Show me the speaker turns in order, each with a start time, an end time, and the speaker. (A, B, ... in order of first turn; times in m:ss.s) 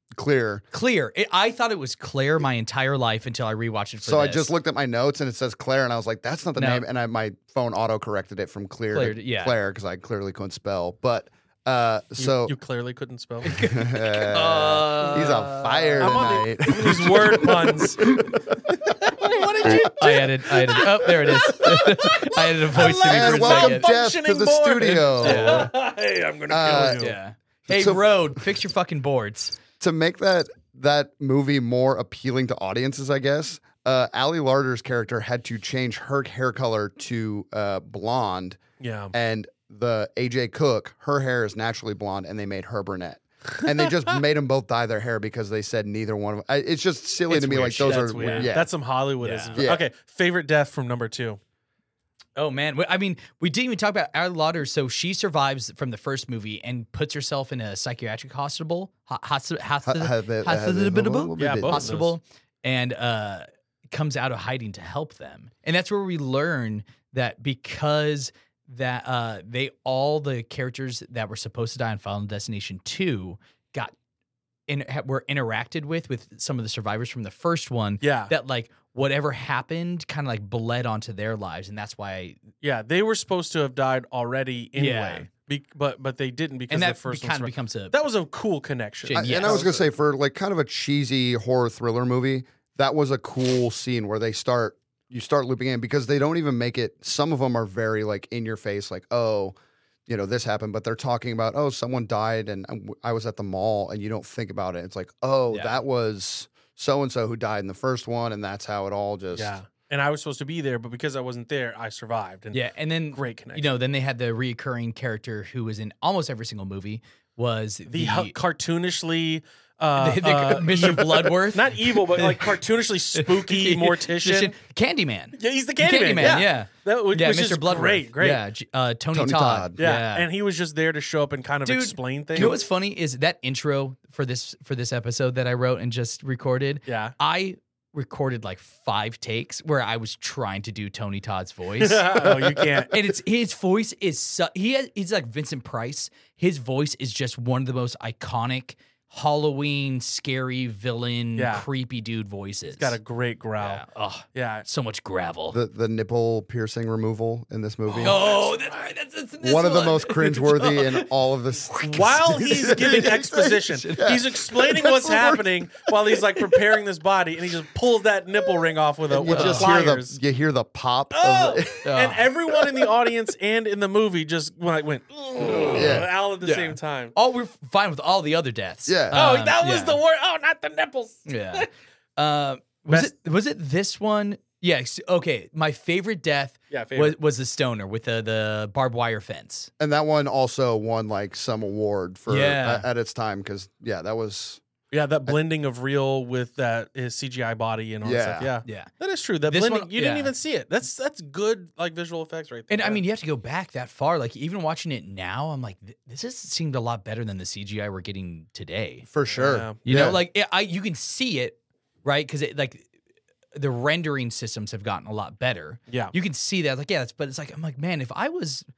0:00.1-0:00.6 A
0:00.7-0:04.5 B
0:04.0-0:12.5 A
0:06.6-0:06.8 B
0:08.9-0:09.6 B
0:12.2-0:13.6 C
0:13.4-0:17.9 B
0:13.5-0:20.0 A
0:16.0-0:18.1 C
0:19.0-0:27.2 C
0:19.7-0:23.9 B
0:22.8-0:25.7 A
0:25.2-0:25.7 B
0:26.5-0:27.1 A
0:27.0-0:29.6 B
0:27.7-0:28.5 A
0:29.8-0:38.6 A
0:38.8-0:39.1 C
0:39.1-0:48.7 A
0:47.3-0:51.4 C
0:47.8-0:48.5 B
0:49.2-0:49.6 B
0:49.6-0:49.9 A
0:52.4-1:14.0 B
0:59.8-1:02.0 A
1:01.4-1:02.1 C
1:14.7-1:22.4 B
1:18.0-1:18.3 C
1:22.6-1:29.8 C
1:24.8-1:25.3 B
1:26.7-1:28.0 B
1:29.0-1:29.7 B
1:29.1-1:39.6 A
1:40.1-1:49.6 A
1:45.5-1:45.8 B
1:49.3-1:52.6 C
1:52.5-1:58.4 B
1:53.1-1:53.7 C
1:57.9-2:04.6 C
2:00.0-2:02.6 B
2:03.2-2:10.3 B
2:05.4-2:08.4 C
2:09.1-2:09.8 A
2:09.8-2:12.6 C
2:11.7-2:33.0 B
2:16.9-2:17.2 C
2:21.8-2:23.0 C
2:31.4-2:31.7 C
2:32.7-2:33.8 C
2:33.6-2:35.6 B
2:34.4-2:34.7 C
2:35.5-2:38.5 A
2:37.9-2:38.2 C
2:38.0-2:41.1 B
2:39.4-2:46.5 A
2:41.8-2:43.1 B
2:41.8-2:50.2 C
2:43.7-2:44.0 B
2:49.1-2:51.8 A
2:49.2-2:49.7 B
2:51.1-2:57.1 C
2:51.8-2:52.3 B
2:52.6-2:52.9 A
2:55.4-3:00.0 B
2:55.7-2:56.1 A
2:58.9-2:59.2 A
2:59.1-3:01.7 C
3:01.3-3:09.7 B
3:06.7-3:07.2 C
3:09.8-3:14.6 A
3:12.3-3:12.9 B
3:14.9-3:23.0 C
3:18.0-3:18.5 A
3:18.6-3:18.9 B
3:19.5-3:20.3 B
3:22.7-3:29.1 B
3:29.1-3:30.2 A
3:29.3-3:29.8 C
3:29.8-3:32.9 B
3:33.6-3:38.6 B
3:35.9-3:36.1 C